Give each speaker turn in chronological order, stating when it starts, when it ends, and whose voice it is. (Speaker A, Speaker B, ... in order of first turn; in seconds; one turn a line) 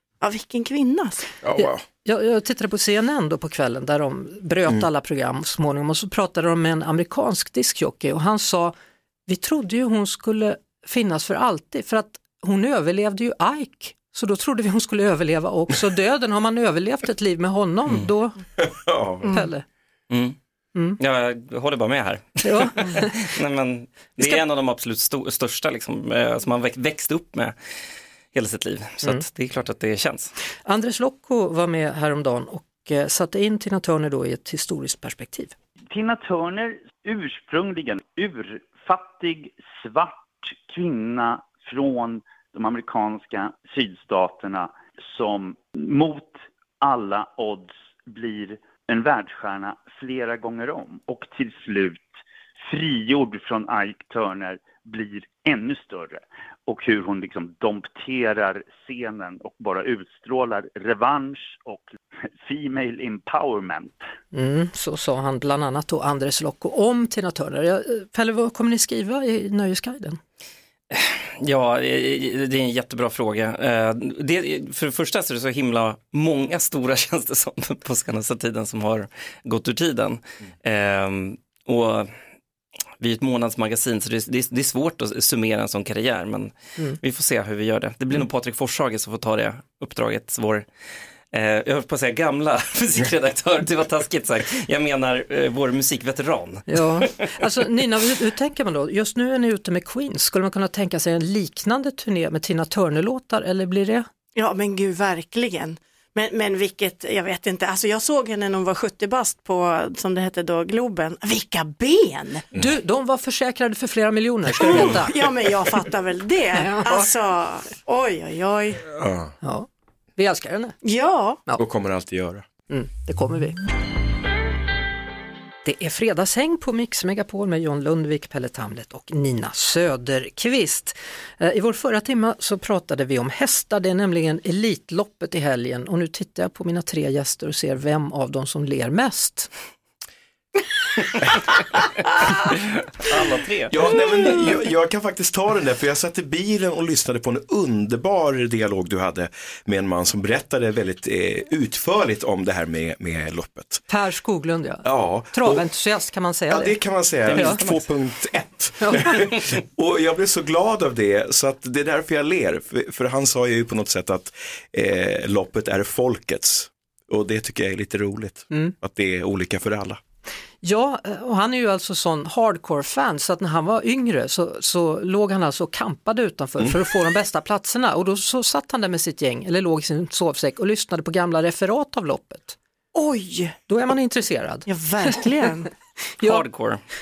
Speaker A: 0.2-1.3
Speaker B: 1.4-1.8
Speaker C: 1.6-8.7
Speaker C: 9.3-18.4
Speaker B: 18.6-19.4
Speaker C: 19.3-19.6
Speaker D: 20.1-20.4
Speaker D: 21.0-27.5
Speaker C: 22.4-23.3
Speaker D: 28.3-30.3
Speaker C: 30.6-35.5
Speaker E: 35.9-52.1
Speaker E: 52.6-61.9
Speaker E: 62.4-64.1
Speaker C: 64.3-70.2
Speaker D: 70.9-82.1
Speaker D: 83.0-90.7
Speaker D: 91.3-97.3
Speaker C: 96.7-104.1
Speaker A: 104.3-112.4
Speaker C: 112.5-115.1
Speaker A: 114.6-118.9
Speaker C: 116.5-117.1
Speaker B: 119.0-119.3
Speaker C: 119.4-120.8
Speaker A: 120.8-121.4
Speaker B: 121.6-122.5
Speaker C: 122.7-123.6
Speaker C: 125.6-139.5
Speaker D: 142.5-143.8
Speaker B: 143.7-153.8
Speaker C: 153.9-156.8
Speaker B: 154.8-155.7
Speaker B: 156.5-170.0
Speaker D: 157.3-157.8
Speaker C: 157.3-157.6
Speaker C: 158.8-159.2
Speaker C: 168.5-168.7
Speaker C: 170.6-182.6
Speaker A: 182.9-183.6
Speaker C: 183.7-185.3
Speaker A: 184.7-185.7
Speaker D: 186.2-186.8